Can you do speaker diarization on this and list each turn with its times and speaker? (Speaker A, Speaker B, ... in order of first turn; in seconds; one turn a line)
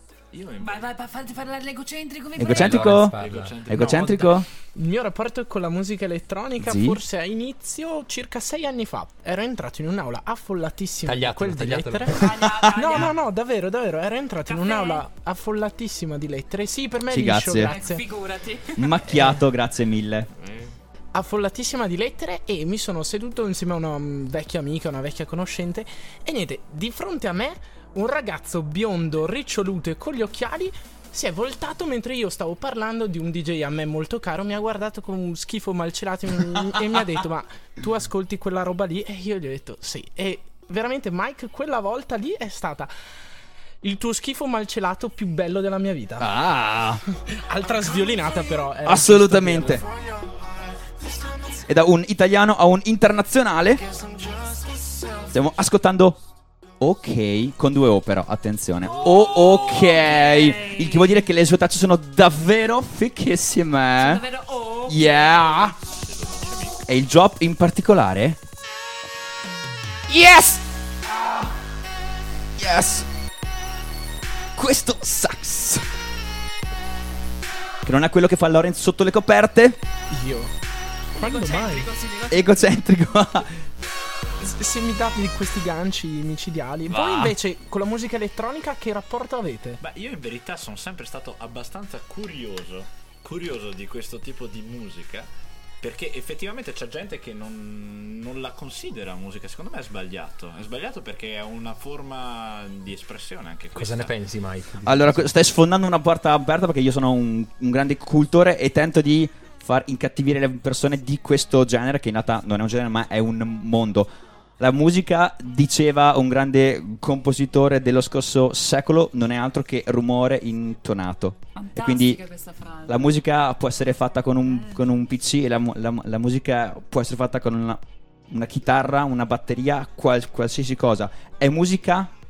Speaker A: 0.3-0.9
Speaker B: 0.6-2.9
Speaker C: 2.4-4.5
Speaker D: 2.5-4.2
Speaker A: 3.0-4.3
Speaker E: 4.7-18.0
Speaker C: 6.6-7.0
Speaker D: 11.0-12.2
Speaker B: 12.1-13.1
Speaker B: 14.4-15.0
Speaker C: 17.1-17.7
Speaker B: 17.6-19.1
Speaker C: 18.8-20.3
Speaker A: 20.4-20.7
Speaker E: 21.1-42.9
Speaker E: 43.8-46.3
Speaker C: 46.2-47.0
Speaker E: 47.3-49.8
Speaker C: 48.8-49.8
Speaker C: 51.6-53.8
Speaker C: 55.3-56.2
Speaker C: 56.8-64.2
Speaker B: 58.8-61.2
Speaker B: 64.0-65.7
Speaker C: 64.9-65.8
Speaker A: 65.8-66.8
Speaker C: 66.9-68.4
Speaker C: 70.1-71.5
Speaker C: 72.6-73.1
Speaker C: 74.5-75.8
Speaker C: 77.8-79.8
Speaker E: 80.1-80.5
Speaker E: 81.2-81.9
Speaker B: 81.2-82.7
Speaker C: 82.3-83.6
Speaker E: 84.4-89.8
Speaker C: 86.9-87.3
Speaker A: 89.8-95.3
Speaker A: 95.8-104.1
Speaker D: 103.7-105.3
Speaker C: 104.8-122.2
Speaker B: 121.5-123.1
Speaker C: 122.9-132.1
Speaker B: 124.4-124.9